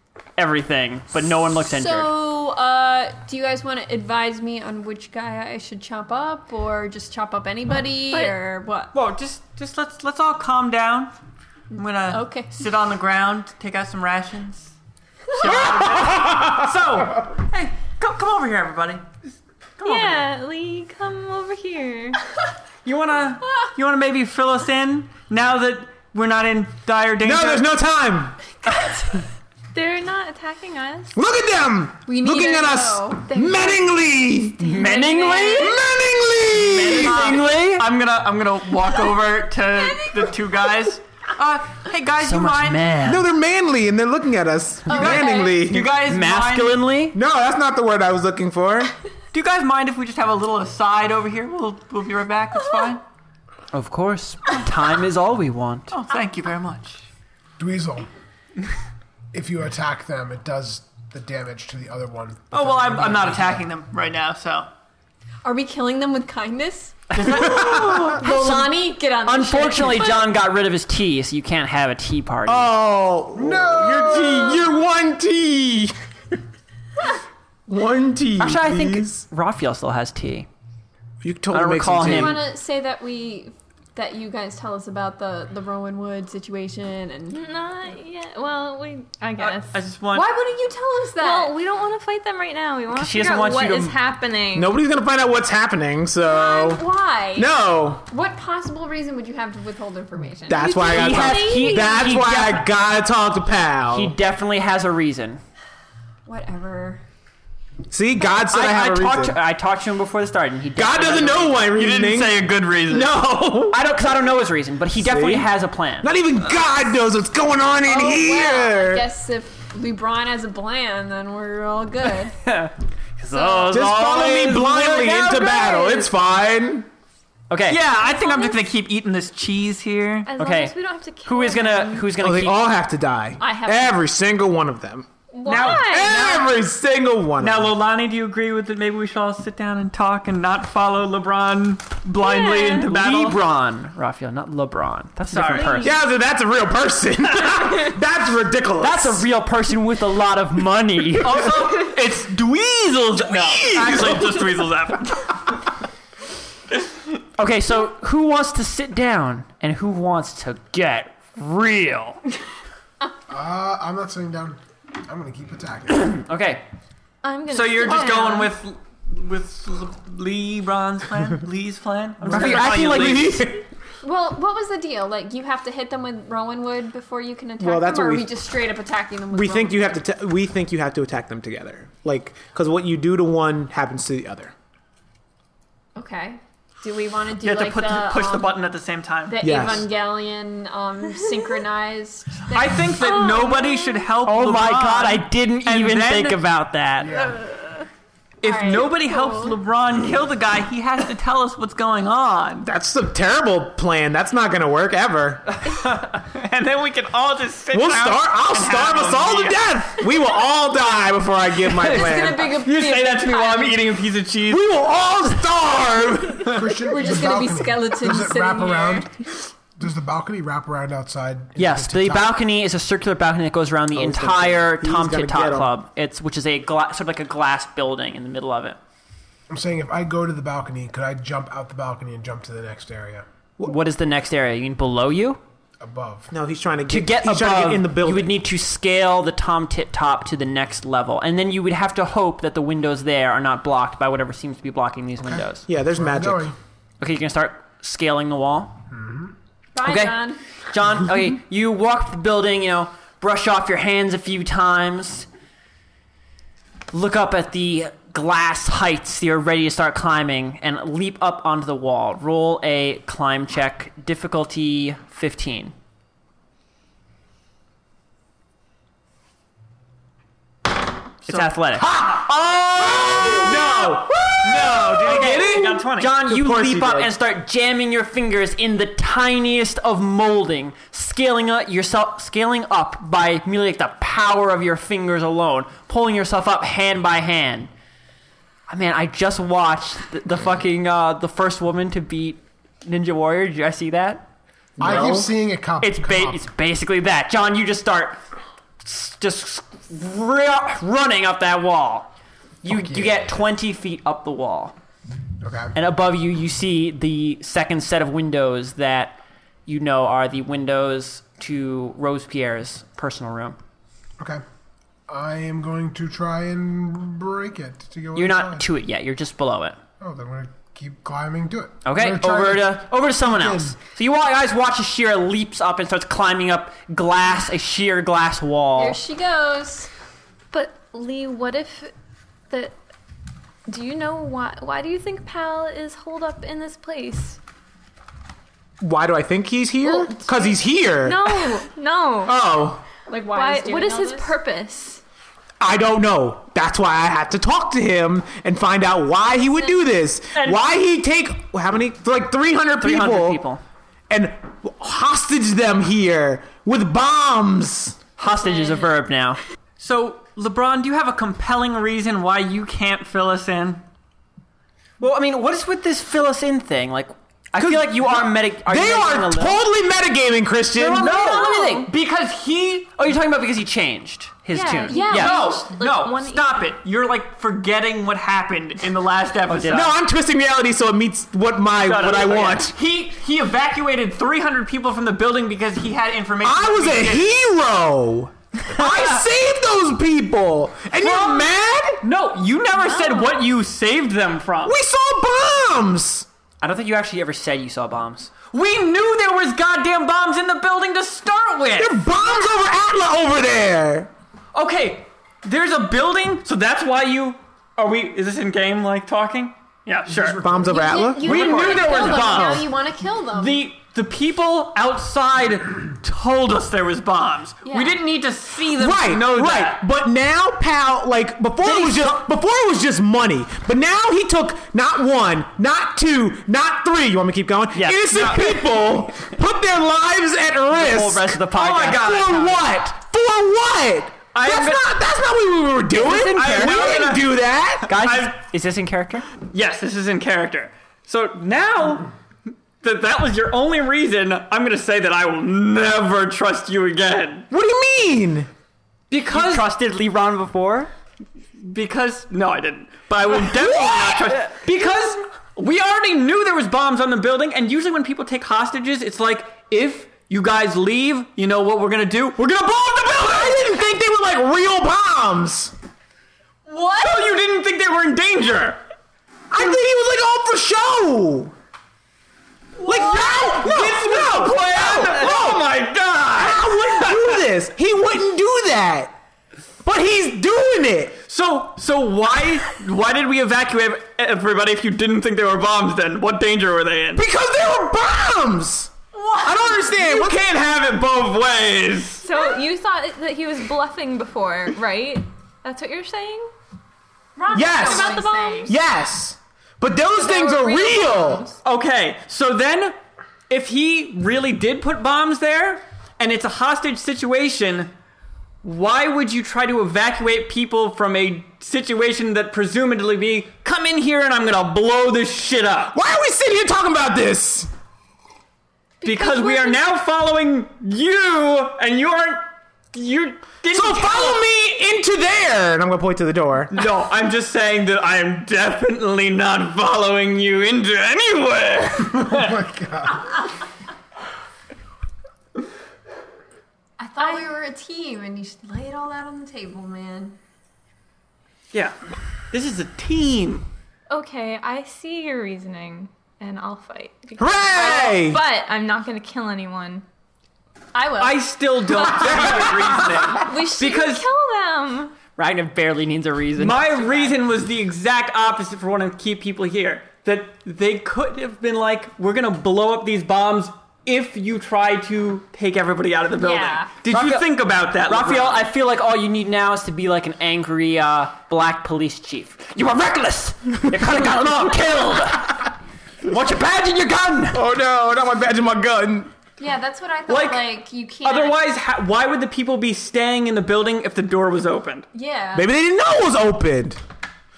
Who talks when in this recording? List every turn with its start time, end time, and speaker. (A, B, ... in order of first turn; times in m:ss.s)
0:00.4-0:02.2 A
0:01.5-0:08.9 B
0:08.9-0:11.1 C
0:11.7-0:14.7 C
0:12.1-0:12.5 B
0:15.3-0:19.1 C
0:15.5-0:16.7 D
0:19.8-0:20.3 C
0:19.8-0:22.2 E
0:22.8-0:27.7 C
0:27.2-0:28.4 D
0:29.7-0:31.2 E
0:31.2-0:34.6 D
0:32.1-0:33.9 B
0:34.6-0:35.8 A
0:34.6-0:35.8 B
0:34.8-0:35.5 E
0:35.5-0:37.4 D
0:36.6-0:37.9 A
0:36.7-0:42.8 C
0:39.8-0:40.3 B
0:42.2-0:43.3 A
0:43.0-0:45.9 D
0:44.9-0:45.7 B
0:44.9-0:46.8 C
0:45.8-0:47.2 A
0:47.1-0:48.9 D
0:49.3-0:53.0 C
0:53.7-0:55.9 A
0:55.9-0:57.1 C
0:57.6-0:58.1 F
0:59.3-1:03.7 F
1:02.5-1:04.7 C
1:05.4-1:10.3 B
1:07.2-1:08.2 C
1:07.2-1:08.7 A
1:09.2-1:12.7 A
1:12.5-1:16.0 D
1:13.4-1:14.7 F
1:17.7-1:19.2 D
1:18.4-1:20.5 A
1:21.2-1:22.5 D
1:21.5-1:22.4 A
1:22.0-1:27.5 B
1:27.3-1:29.8 E
1:29.4-1:30.3 C
1:30.1-1:31.6 B
1:31.2-1:34.8 E
1:32.9-1:34.0 A
1:34.5-1:38.0 D
1:36.2-1:37.5 B
1:38.1-1:41.9 B
1:40.5-1:44.2 D
1:40.8-1:42.7 A
1:43.9-1:45.4 A
1:46.3-1:47.0 B
1:47.9-1:49.4 D
1:48.5-1:51.8 A
1:50.8-1:53.8 D
1:51.7-1:53.2 C
1:53.7-1:56.2 A
1:55.0-1:59.1 D
1:57.8-2:02.4 B
2:02.4-2:04.9 A
2:03.3-2:03.8 B
2:03.7-2:06.9 D
2:03.8-2:05.8 C
2:07.5-2:07.8 A
2:07.7-2:10.3 C
2:07.9-2:08.7 E
2:10.3-2:12.2 E
2:10.4-2:12.6 A
2:12.2-2:17.8 D
2:13.4-2:14.0 B
2:15.3-2:16.5 E
2:15.4-2:16.5 C
2:17.4-2:23.4 C
2:22.2-2:22.9 E
2:22.8-2:26.0 A
2:25.3-2:25.9 C
2:25.8-2:29.2 D
2:28.8-2:31.4 A
2:31.2-2:35.5 C
2:33.2-2:34.5 D
2:37.4-2:42.2 A
2:43.3-2:46.2 F
2:45.9-2:46.6 A
2:47.2-2:48.5 E
2:47.5-2:53.4 C
2:52.3-2:53.6 D
2:52.3-2:53.5 A
2:54.0-3:00.0 B
2:57.6-2:58.3 D
2:59.3-3:04.5 D
3:06.0-3:08.6 B
3:07.4-3:09.4 C
3:09.3-3:13.0 B
3:09.4-3:09.9 D
3:12.5-3:16.4 C
3:13.0-3:14.1 E
3:14.2-3:17.1 A
3:17.0-3:17.4 F
3:17.2-3:17.4 E
3:18.4-3:22.7 C
3:18.4-3:19.6 B
3:22.6-3:25.4 D
3:25.7-3:29.6 C
3:27.7-3:32.5 D
3:31.8-3:33.9 B
3:31.8-3:34.7 C
3:34.5-3:36.8 D
3:36.5-3:39.1 F
3:36.9-3:39.1 B
3:39.8-3:42.4 F
3:41.6-3:48.8 A
3:43.9-3:45.7 D
3:49.5-3:53.3 F
3:53.6-3:55.4 A
3:55.8-3:56.3 F
3:56.3-3:58.4 D
3:56.9-4:05.7 A
4:05.3-4:06.6 F
4:05.7-4:06.5 D
4:07.0-4:08.8 A
4:08.9-4:09.3 F
4:09.7-4:10.4 B
4:09.8-4:15.3 A
4:16.9-4:25.8 A
4:31.3-4:36.1 C
4:31.3-4:31.9 A
4:31.8-4:37.1 D
4:35.1-4:47.7 A
4:48.7-4:54.3 A
4:54.8-4:55.3 D
4:54.8-4:56.4 F
4:54.8-4:55.2 A
4:55.8-4:58.2 A
4:58.8-5:02.1 A
5:02.6-5:04.8 A
5:02.7-5:03.3 F
5:05.4-5:05.7 F
5:05.7-5:13.6 A
5:15.1-5:18.7 F
5:18.2-5:19.8 A
5:20.0-5:23.8 F
5:21.8-5:29.0 A
5:28.8-5:29.9 B
5:30.5-5:31.9 E
5:32.5-5:32.8 E
5:33.7-5:37.4 E
5:38.8-5:41.5 D
5:39.8-5:42.4 E
5:42.2-5:42.8 D
5:43.1-5:44.3 B
5:43.3-5:45.0 E
5:45.6-5:53.4 D
5:50.4-5:50.6 C
5:52.8-5:53.6 A
5:54.1-5:58.0 D
5:58.2-5:59.4 A
5:59.8-6:03.8 C
6:05.0-6:09.6 A
6:07.6-6:11.1 D
6:10.8-6:11.9 A
6:11.0-6:11.9 E
6:11.0-6:13.0 C
6:13.0-6:15.4 A
6:14.5-6:16.7 E
6:14.9-6:15.6 B
6:15.0-6:20.0 C
6:19.5-6:19.9 A
6:19.7-6:22.8 D
6:21.8-6:27.3 C
6:26.4-6:32.0 D
6:31.0-6:34.8 C
6:34.6-6:36.3 D
6:36.6-6:38.3 A
6:38.5-6:42.0 C
6:41.8-6:44.1 D
6:44.5-6:50.4 C
6:50.1-6:50.8 F
6:50.4-6:52.7 D
6:50.6-6:53.7 B
6:51.2-6:52.7 C
6:53.3-6:59.8 C
6:57.6-6:58.0 B
6:58.8-7:17.9 D
7:01.6-7:02.1 A
7:07.7-7:08.6 A
7:10.7-7:12.3 A
7:11.5-7:12.7 C
7:14.3-7:14.9 C
7:15.9-7:17.1 A
7:16.1-7:18.4 C
7:17.9-7:19.3 A
7:19.4-7:22.1 C
7:22.8-7:27.5 C
7:27.5-7:28.5 D
7:29.1-7:29.7 C
7:29.3-7:30.9 A
7:31.6-7:43.7 C
7:42.9-7:45.7 D
7:46.7-7:47.4 B
7:47.0-7:48.8 C
7:49.5-7:51.5 D
7:52.8-7:57.4 C
7:52.8-7:55.7 D
7:56.3-7:59.1 D
7:59.8-8:01.2 D
8:01.3-8:07.2 C
8:07.2-8:10.6 D
8:09.1-8:09.9 B
8:10.1-8:12.3 C
8:12.2-8:16.5 E
8:17.4-8:18.7 B
8:17.5-8:18.1 D
8:17.6-8:18.8 E
8:18.6-8:21.4 D
8:20.1-8:21.6 E
8:21.6-8:23.0 C
8:23.5-8:27.9 C
8:28.6-8:36.0 C
8:35.9-8:37.7 D
8:39.0-8:39.8 B
8:39.0-8:44.5 C
8:43.7-8:46.7 D
8:46.7-8:52.6 C
8:52.0-8:53.5 F
8:57.0-9:00.4 B
8:57.2-8:57.5 E
9:02.5-9:03.7 C
9:04.1-9:10.0 E
9:07.4-9:08.4 D
9:10.9-9:12.8 B
9:11.2-9:14.3 C
9:12.8-9:13.2 D
9:13.4-9:15.2 E
9:15.4-9:17.0 A
9:16.6-9:28.7 C
9:26.4-9:27.0 B
9:27.1-9:35.7 A
9:36.2-9:37.6 A
9:37.5-9:39.3 D
9:39.6-9:41.6 B
9:40.3-9:45.1 C
9:45.1-9:45.7 B
9:45.5-9:47.0 D